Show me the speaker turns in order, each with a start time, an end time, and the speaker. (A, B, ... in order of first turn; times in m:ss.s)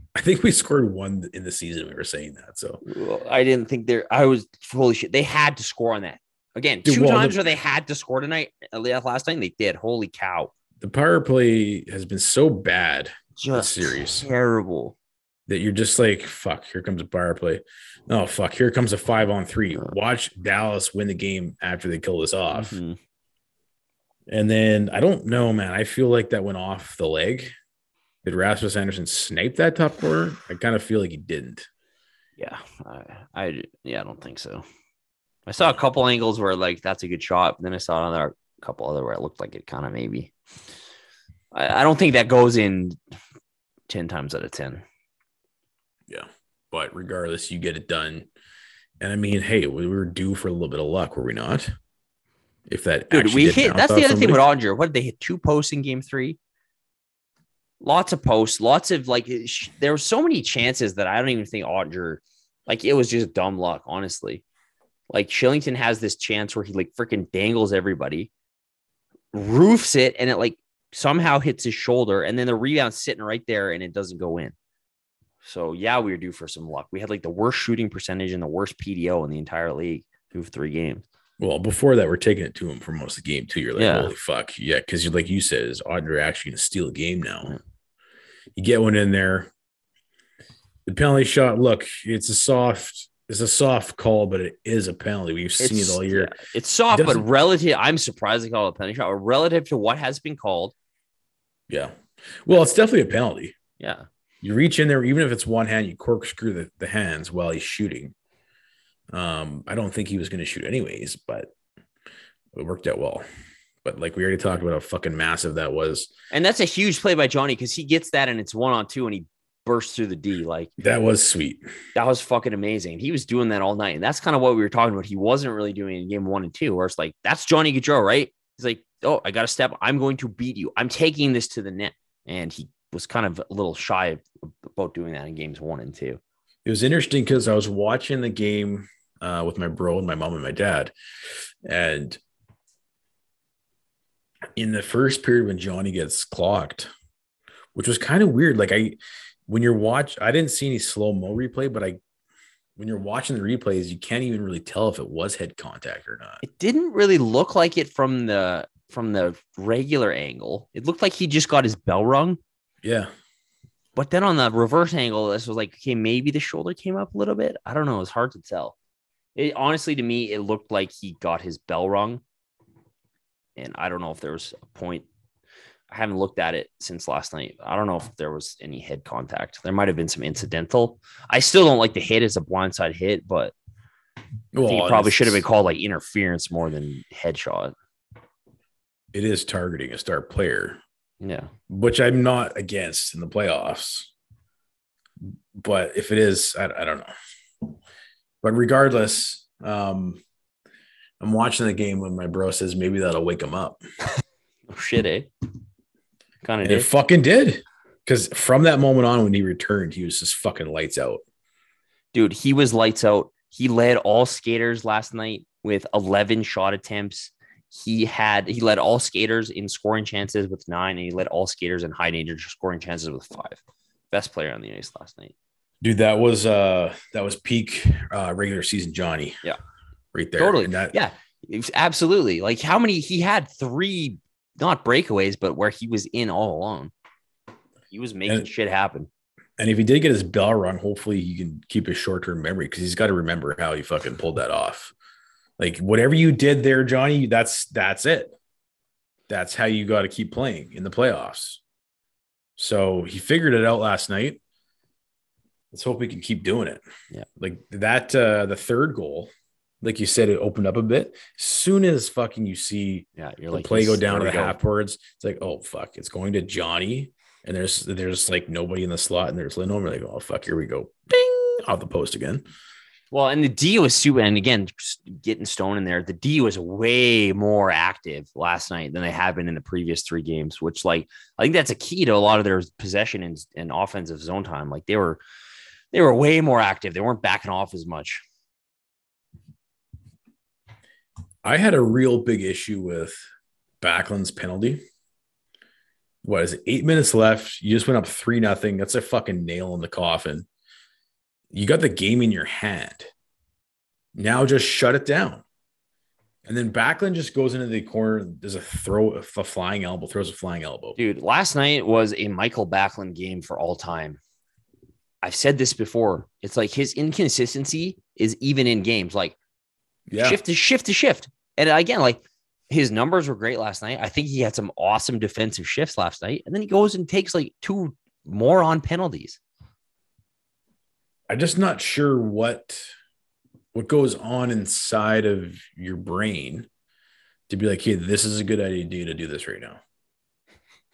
0:00.2-0:02.8 A
0:02.9-0:10.5 B
0:06.8-0:07.4 A
0:10.8-0:14.3 A
0:13.4-0:15.0 B
0:15.5-0:22.8 A
0:22.5-0:23.0 B
0:24.3-0:27.5 A
0:28.2-0:31.7 A
0:32.4-0:34.6 B
0:35.5-0:40.3 B
0:41.5-0:43.0 B
0:43.9-0:44.8 B
0:46.1-0:48.3 A
0:49.0-0:51.8 A
0:52.7-0:54.4 A
0:53.1-0:56.4 B
0:57.8-1:04.4 B
1:05.1-1:08.3 B
1:09.3-1:14.6 B
1:15.4-1:21.0 B
1:21.4-1:27.6 A
1:23.8-1:24.1 B
1:28.6-1:29.5 A
1:30.9-1:36.3 A
1:35.6-1:40.7 B
1:36.9-1:37.3 A
1:41.7-1:43.6 A
1:43.8-1:44.1 B
1:44.4-1:48.1 A
1:49.1-1:51.5 A
1:52.6-1:53.2 A
1:53.8-1:56.1 A
1:56.3-2:00.7 B
2:00.8-2:01.7 A
2:02.0-2:16.2 B
2:16.6-2:22.2 A
2:24.6-2:26.9 A
2:27.8-2:32.0 A
2:32.8-2:36.4 A
2:36.4-2:42.4 B
2:42.8-2:43.1 A
2:44.0-2:48.8 B
2:49.4-2:52.2 B
2:53.6-2:55.1 B
2:55.9-3:03.5 B
3:04.5-3:05.4 A
3:04.7-3:07.7 B
3:09.1-3:10.8 A
3:11.2-3:11.5 B
3:11.7-3:14.1 A
3:15.2-3:17.1 A
3:18.4-3:20.2 A
3:21.2-3:23.8 A
3:24.7-3:25.3 B
3:26.4-3:26.9 B
3:26.6-3:31.2 A
3:32.1-3:43.6 B
3:44.1-3:45.3 B
3:45.8-3:49.4 A
3:50.1-3:51.0 A
3:50.4-3:56.9 B
3:57.9-3:59.1 B
3:59.6-4:04.9 A
4:05.6-4:08.4 A
4:09.3-4:11.6 A
4:12.6-4:14.4 A
4:15.7-4:16.8 A
4:17.4-4:19.3 A
4:19.8-4:32.4 A
4:23.2-4:24.6 B
4:33.1-4:45.2 B
4:45.9-4:48.2 B
4:51.4-4:53.2 A
4:53.8-4:54.8 A
4:56.2-5:00.5 A
5:01.5-5:03.1 A
5:04.2-5:05.4 A
5:06.5-5:11.0 A
5:11.0-5:14.2 B
5:15.2-5:19.4 B
5:20.1-5:20.4 A
5:20.2-5:29.4 B
5:31.3-5:32.9 A
5:33.7-5:36.7 A
5:37.5-5:39.8 A